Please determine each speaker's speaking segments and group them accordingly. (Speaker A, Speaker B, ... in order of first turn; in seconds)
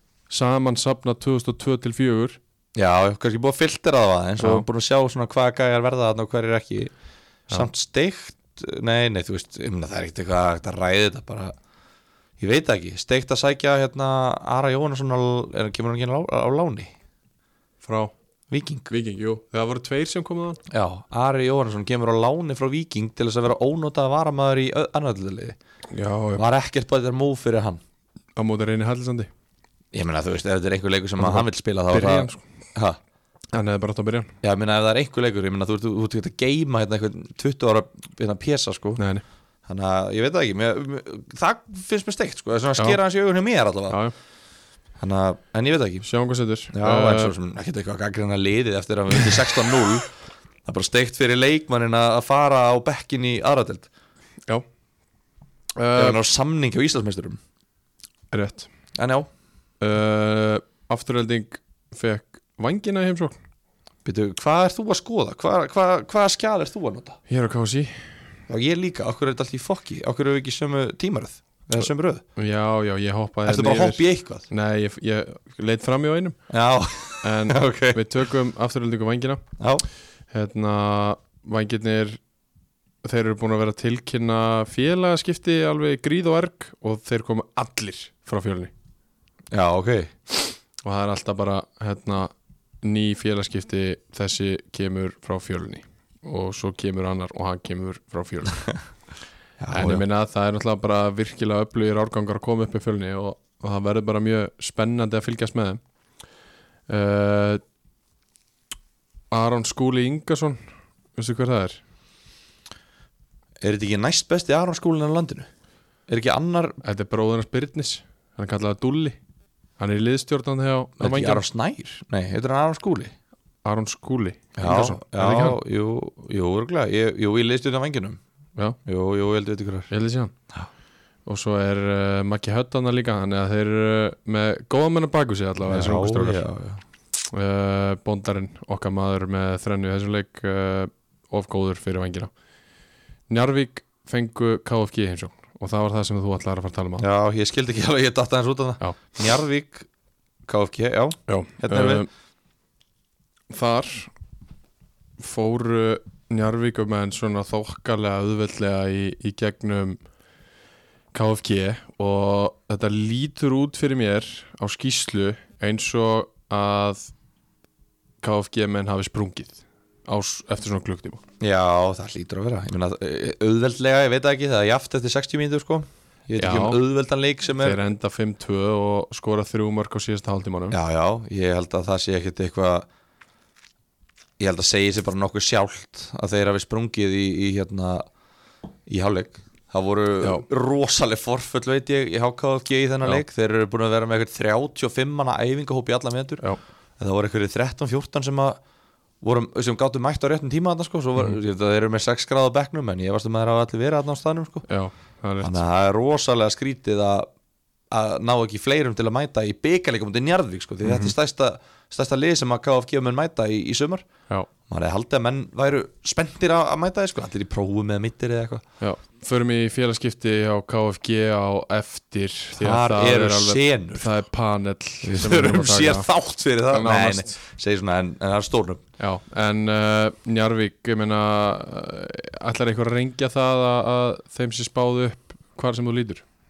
Speaker A: 0.3-2.4, 4.4-4.7, 17.8-18.1, 18.9-20.6, 25.9-26.4, 28.4-29.3, 31.2-32.4, 33.5-34.3, 39.0-39.2, 46.0-47.3, 55.8-56.2, 58.3-58.7, 59.8-63.4, 67.3-68.1, 72.3-76.4, 77.2-79.4, 80.3-82.2, 83.0-88.7, 90.8-98.6, 99.7-105.8, 106.9-107.6, 109.3-110.6, 111.1-111.8, 116.8-119.2, 119.8-121.4, 123.6-125.6, 129.9-130.3, 131.2-136.4, 137.3-142.3, 143.3-147.0, 151.3-152.1, 153.5-154.1, 155.2-160.0, 161.1-167.1, 168.2-171.2, 176.4-176.8, 177.6-180.8, 204.7-205.6, 210.8-211.1, 218.8-226.1, 226.7-227.3, 229.0-236.2
Speaker B: 2.8-6.9, 7.5-11.5, 12.4-16.9, 18.5-18.9, 20.7-25.6, 26.4-27.8, 29.9-33.0, 34.4-39.0, 39.7-44.0, 45.0-46.1, 46.7-50.1, 50.6-53.9, 55.9-57.4, 59.0-59.3, 64.0-67.2, 68.5-72.2, 73.5-74.5, 76.5-78.0, 79.6-79.8, 89.5-90.3, 99.6-100.0, 113.6-115.5, 116.1-116.8, 121.0-123.1, 124.6-128.2, 128.8-129.9, 135.6-136.8, 147.0-149.9, 150.5-152.1, 171.4-177.8, 180.7-182.9, 184.4-188.1, 188.9-196.4, 197.0-198.6, 199.2-204.7, 205.4-207.3, 207.9-214.0, 214.7-218.6, 222.6-224.2, 225.0-228.8